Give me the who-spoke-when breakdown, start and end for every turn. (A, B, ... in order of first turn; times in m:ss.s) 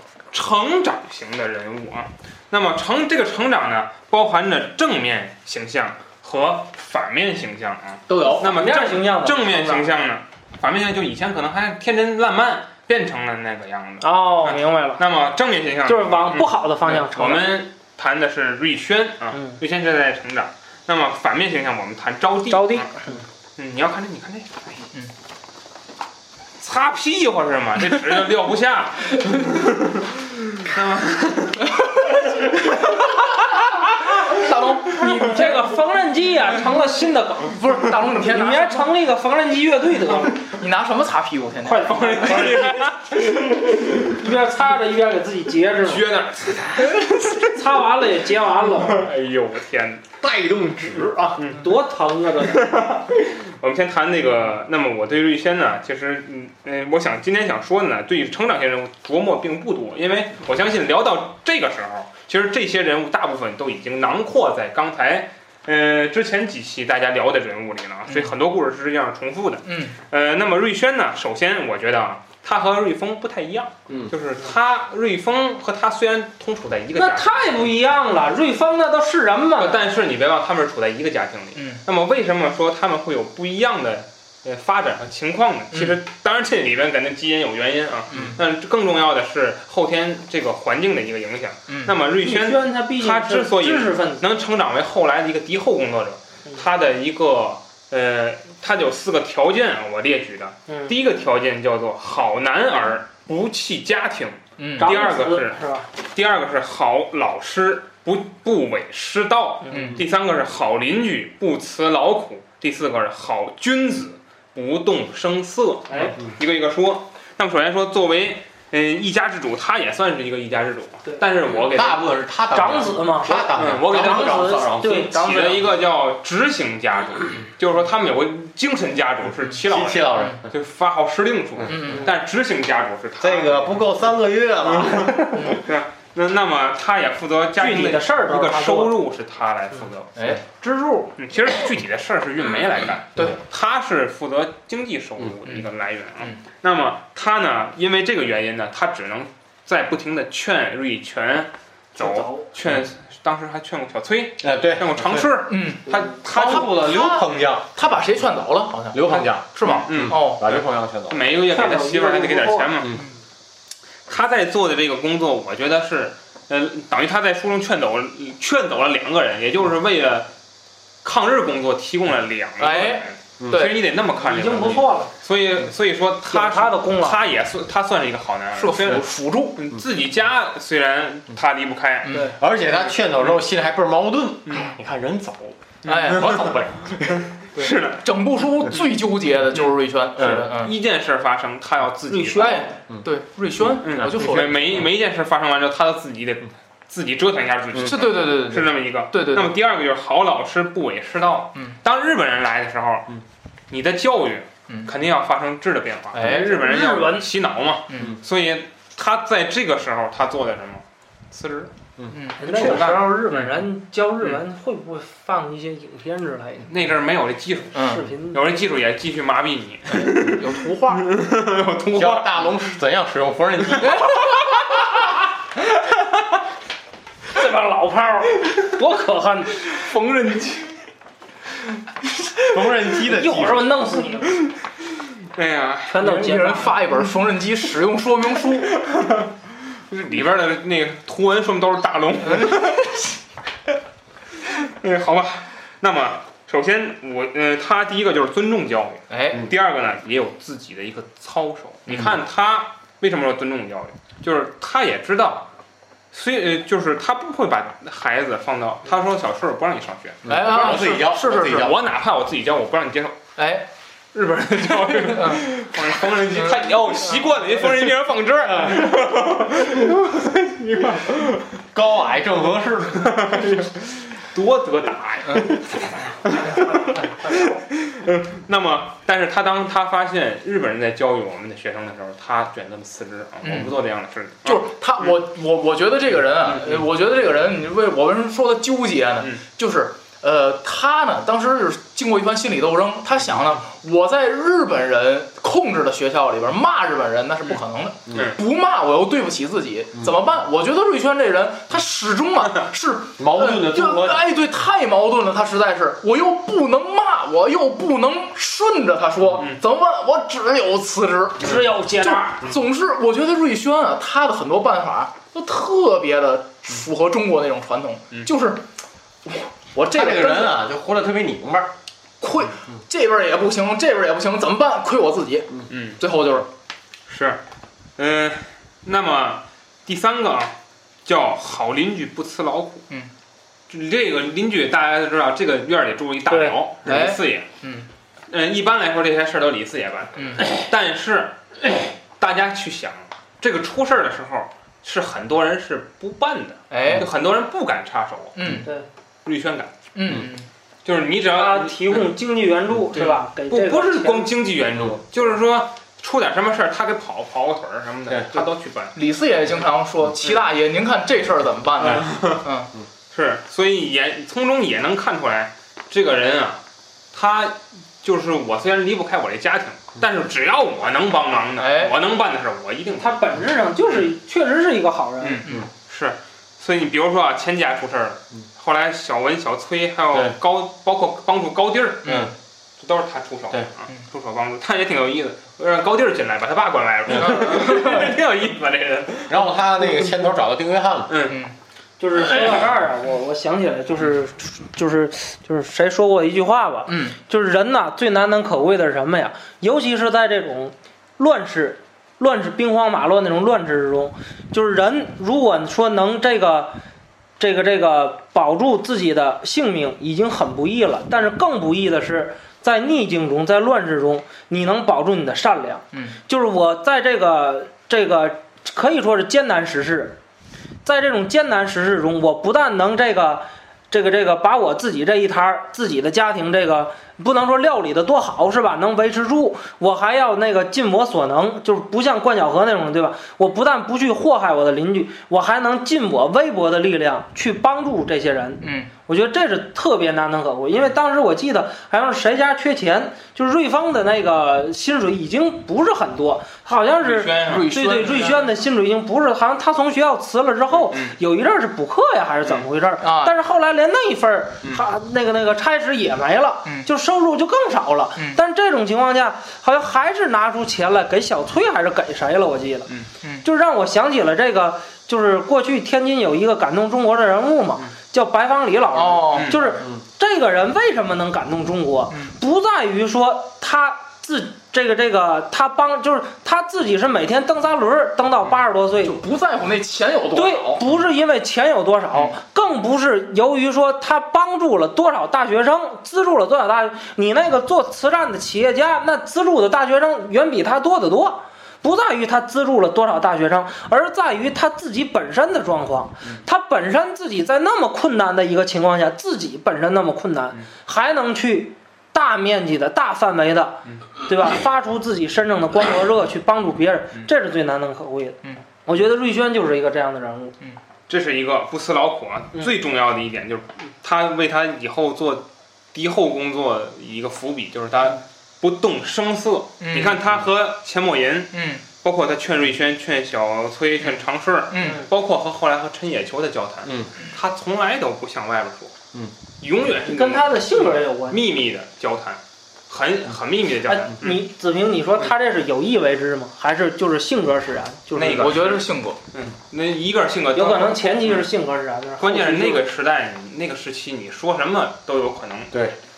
0:00.3-0:22.9 A
0:08.1-0:08.5 B
0:08.5-0:09.9 C
0:14.0-0:15.0 C
0:15.8-0:17.6 C
0:22.5-0:23.2 C
0:23.6-0:24.9 A
0:26.6-0:33.2 A
0:31.7-0:33.5 D
0:34.2-0:35.4 D
0:34.9-0:40.5 C
0:35.0-0:35.5 A
0:37.4-0:38.9 D
0:40.4-0:42.3 D
0:41.6-0:46.1 C
0:41.9-0:43.3 A
0:45.8-0:47.5 A
0:47.3-0:49.1 C
0:48.7-0:50.1 A
0:50.2-0:51.4 B
0:51.4-0:51.6 A
0:51.5-0:52.7 C
0:52.4-1:17.3 A
1:08.1-1:08.3 D
1:09.6-1:10.0 D
1:16.9-1:19.9 C
1:19.6-2:02.0 A
1:21.6-1:21.8 D
1:25.7-1:26.0 D
1:28.1-1:28.4 D
1:31.7-1:32.0 D
1:32.2-1:34.2 C
1:44.6-1:44.9 D
1:44.8-1:45.9 C
1:49.6-1:49.9 C
1:49.7-1:50.0 D
1:55.9-1:56.2 C
2:01.6-2:05.3 B
2:02.5-2:05.7 C
2:03.5-2:13.9 A
2:09.6-2:10.5 B
2:11.7-2:12.1 D
2:13.2-2:15.6 B
2:14.6-2:20.4 A
2:17.6-2:19.0 C
2:20.1-2:20.5 D
2:20.6-2:21.1 C
2:21.2-2:36.7 A
2:32.0-2:32.4 C
2:34.4-2:35.3 B
2:35.5-2:40.4 D
2:36.1-2:37.9 B
2:38.9-2:41.2 B
2:39.1-2:43.0 A
2:41.5-2:42.7 C
2:44.1-2:50.3 A
2:51.0-2:59.0 A
2:52.6-2:53.8 D
2:53.4-2:53.7 B
2:54.2-2:55.1 C
2:56.3-2:57.2 C
2:58.5-2:59.6 D
2:59.6-3:02.2 A
3:02.0-3:02.3 D
3:02.3-3:07.2 B
3:04.4-3:04.7 A
3:05.8-3:06.5 A
3:05.8-3:06.6 D
3:07.0-3:08.0 A
3:07.6-3:10.7 D
3:10.2-3:10.5 B
3:10.2-3:12.6 A
3:12.1-3:12.7 C
3:12.3-3:14.8 D
3:13.8-3:23.2 A
3:17.8-3:19.5 D
3:23.7-3:31.7 A
3:26.1-3:26.6 D
3:26.2-3:27.3 C
3:27.9-3:28.2 D
3:32.1-3:32.8 D
3:32.4-3:36.7 C
3:32.4-3:33.6 A
3:36.6-3:42.4 A
3:37.7-3:38.1 D
3:37.8-3:38.4 C
3:39.9-3:41.0 D
3:41.9-3:44.2 B
3:43.8-3:44.5 D
3:47.3-3:49.8 C
3:49.9-3:50.6 D
3:52.5-3:53.7 B
3:53.0-3:54.5 C
3:55.3-3:55.9 A
3:55.9-3:56.8 C
3:56.0-3:58.7 D
3:58.8-3:59.3 A
3:59.9-4:03.0 A
4:02.4-4:02.7 D
4:04.6-4:15.5 A
4:09.1-4:09.5 D
4:16.1-4:23.2 A
4:20.2-4:21.8 B
4:20.2-4:21.7 D
4:23.4-4:23.7 D
4:24.1-4:31.5 A
4:25.0-4:25.5 D
4:26.4-4:27.2 D
4:31.7-4:33.6 B
4:32.9-4:44.7 A
4:36.5-4:37.6 C
4:43.4-4:43.8 D
4:44.4-5:18.6 D
4:46.5-4:46.8 A
4:58.1-4:58.3 B
4:58.1-4:58.4 A
5:03.2-5:04.2 B
5:11.4-5:12.4 C
5:19.3-5:20.6 D
5:19.9-5:21.7 B
5:22.2-5:26.5 D
5:25.7-5:26.0 A
5:27.1-5:27.4 A
5:28.0-5:32.8 A
5:33.7-5:37.5 A
5:36.3-5:36.6 C
5:36.8-5:37.9 D
5:38.3-5:48.4 A
5:40.2-5:40.4 D
5:46.7-5:47.1 D
5:48.3-5:48.7 D
5:49.2-5:49.7 A
5:49.9-5:50.5 D
5:50.8-5:52.1 A
5:51.3-5:54.3 C
5:52.9-5:58.9 A
5:58.1-5:58.4 B
5:58.9-6:02.7 D
6:01.8-6:02.4 A
6:03.1-6:06.6 A
6:07.1-6:13.2 A
6:11.6-6:11.9 D
6:13.0-6:15.4 C
6:13.8-6:14.1 A
6:15.2-6:29.4 A
6:22.0-6:22.3 D
6:22.0-6:22.3 B
6:27.2-6:28.1 D
6:29.3-6:31.1 B
6:31.1-6:31.4 A
6:31.3-6:31.5 D
6:32.0-6:46.8 C
6:32.2-6:32.6 A
6:36.9-6:37.2 D
6:47.4-7:00.2 C
6:55.9-6:56.2 D
7:00.8-7:42.9 C
7:18.6-7:18.9 D
7:27.0-7:27.7 A
7:27.4-7:28.5 D
7:30.7-7:31.2 A
7:33.0-7:33.3 D
7:43.4-7:59.2 C
7:48.9-7:49.6 D
7:49.3-7:49.7 A
7:59.0-8:00.8 D
8:00.3-8:30.5 C
8:31.1-8:49.0 A
8:39.8-8:40.2 D
8:41.5-8:41.8 D
8:44.7-8:45.0 D
8:44.8-8:45.1 C
8:49.6-8:54.5 A
8:50.0-8:51.4 C
8:53.8-8:58.6 C
8:58.1-9:01.5 A
8:58.3-8:59.2 D
9:00.5-9:02.8 C
9:02.2-9:05.7 A